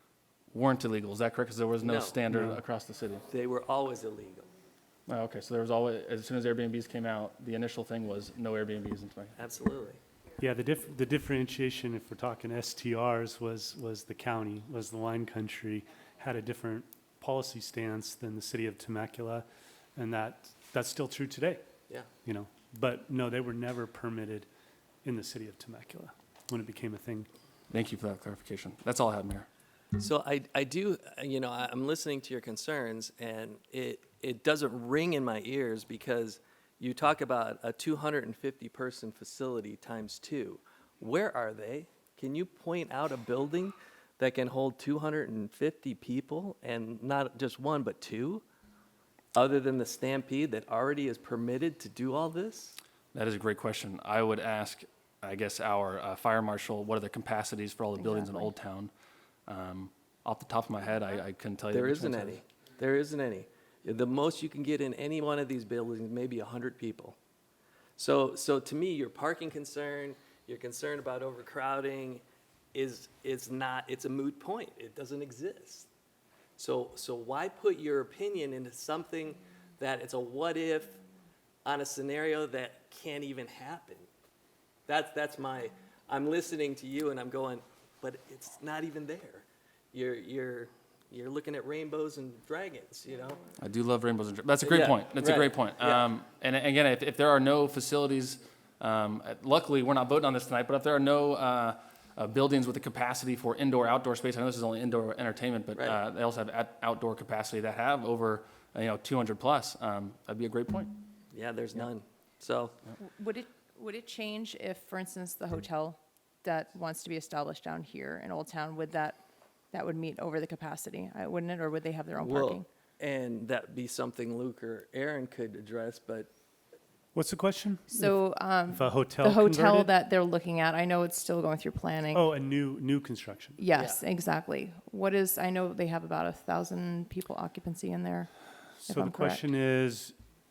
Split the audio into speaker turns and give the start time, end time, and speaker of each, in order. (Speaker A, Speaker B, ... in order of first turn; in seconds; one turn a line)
Speaker A: 0.5-3.2
Speaker B: 1.8-2.2
Speaker C: 2.3-2.6
Speaker B: 3.3-4.5
Speaker A: 5.1-9.3
Speaker B: 9.4-10.0
Speaker C: 10.4-21.6
Speaker C: 22.2-24.5
Speaker C: 25.0-27.3
Speaker A: 27.7-29.5
Speaker B: 30.0-48.4
Speaker B: 49.3-52.8
Speaker A: 53.1-58.9
Speaker D: 58.0-58.5
Speaker A: 59.5-62.4
Speaker B: 61.7-67.2
Speaker B: 68.0-75.9
Speaker B: 76.6-81.0
Speaker B: 81.6-84.1
Speaker B: 84.9-93.4
Speaker A: 93.6-110.9
Speaker B: 94.6-96.1
Speaker B: 111.3-112.8
Speaker D: 113.0-119.2
Speaker D: 119.7-122.7
Speaker B: 122.2-126.3
Speaker C: 127.1-128.2
Speaker D: 127.9-132.2
Speaker C: 128.7-129.9
Speaker C: 132.1-133.6
Speaker D: 133.6-138.3
Speaker B: 133.8-134.0
Speaker C: 138.8-140.2
Speaker D: 138.9-139.4